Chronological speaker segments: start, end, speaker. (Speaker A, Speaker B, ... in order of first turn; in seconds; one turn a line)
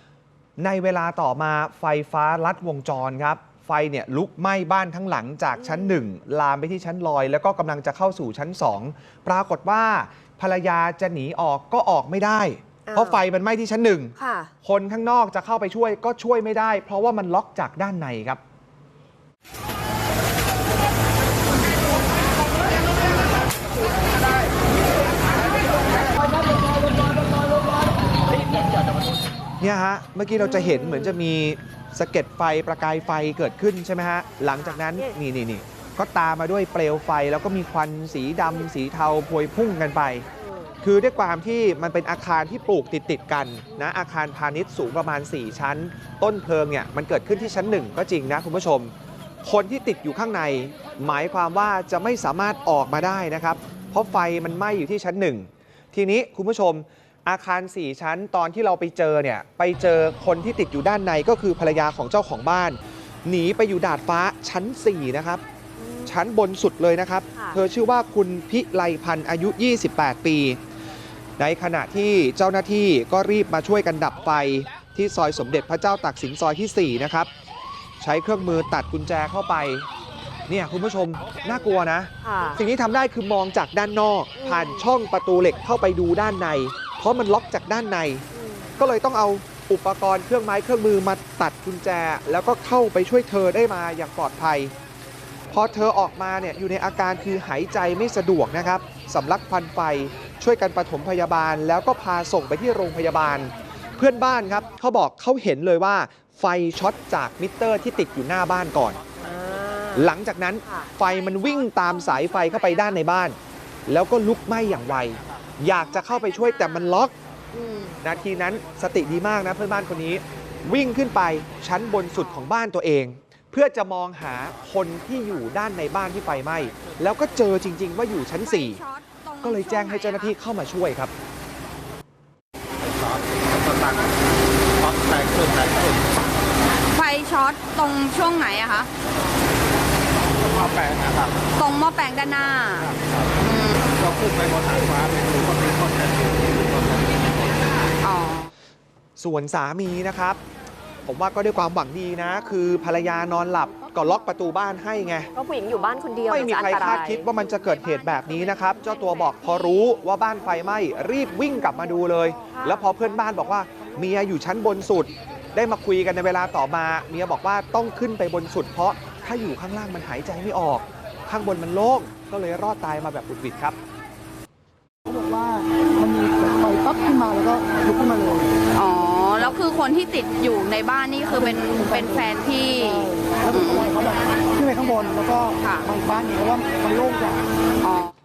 Speaker A: 0.6-18.4
Speaker B: 5.5-6.1
Speaker B: 12.9-13.2
Speaker B: 14.2-14.5
Speaker A: 29.6-40.3
Speaker B: 30.6-31.1
Speaker B: 34.5-35.2
Speaker B: 40.4-40.8
Speaker A: 40.8-48.9
Speaker A: 49.4-65.4
Speaker B: 65.8-66.2
Speaker A: 66.1-70.6
Speaker B: 67.3-67.6
Speaker A: 71.4-77.3
Speaker A: 78.0-79.9
Speaker A: 80.5-88.3
Speaker B: 82.2-82.6
Speaker B: 84.4-84.9
Speaker B: 88.3-88.9
Speaker A: 88.8-94.7
Speaker A: 95.5-109.0
Speaker B: 109.2-110.1
Speaker A: 110.0-117.1
Speaker B: 110.7-110.9
Speaker B: 117.5-118.0
Speaker A: 118.0-128.8
Speaker C: 128.4-130.3
Speaker A: 129.4-131.1
Speaker D: 133.4-134.0
Speaker D: 134.9-136.0
Speaker C: 136.9-138.9
Speaker D: 140.5-141.3
Speaker C: 141.5-143.9
Speaker D: 144.0-147.1
Speaker C: 148.0-148.5
Speaker A: 149.2-150.4
Speaker A: 151.1-155.3
Speaker B: 155.3-157.3
Speaker A: 156.3-173.8
Speaker B: 162.5-163.0
Speaker E: 175.1-178.7
Speaker C: 178.7-184.0
Speaker E: 183.0-187.5
Speaker C: 185.6-185.9
Speaker C: 187.8-188.1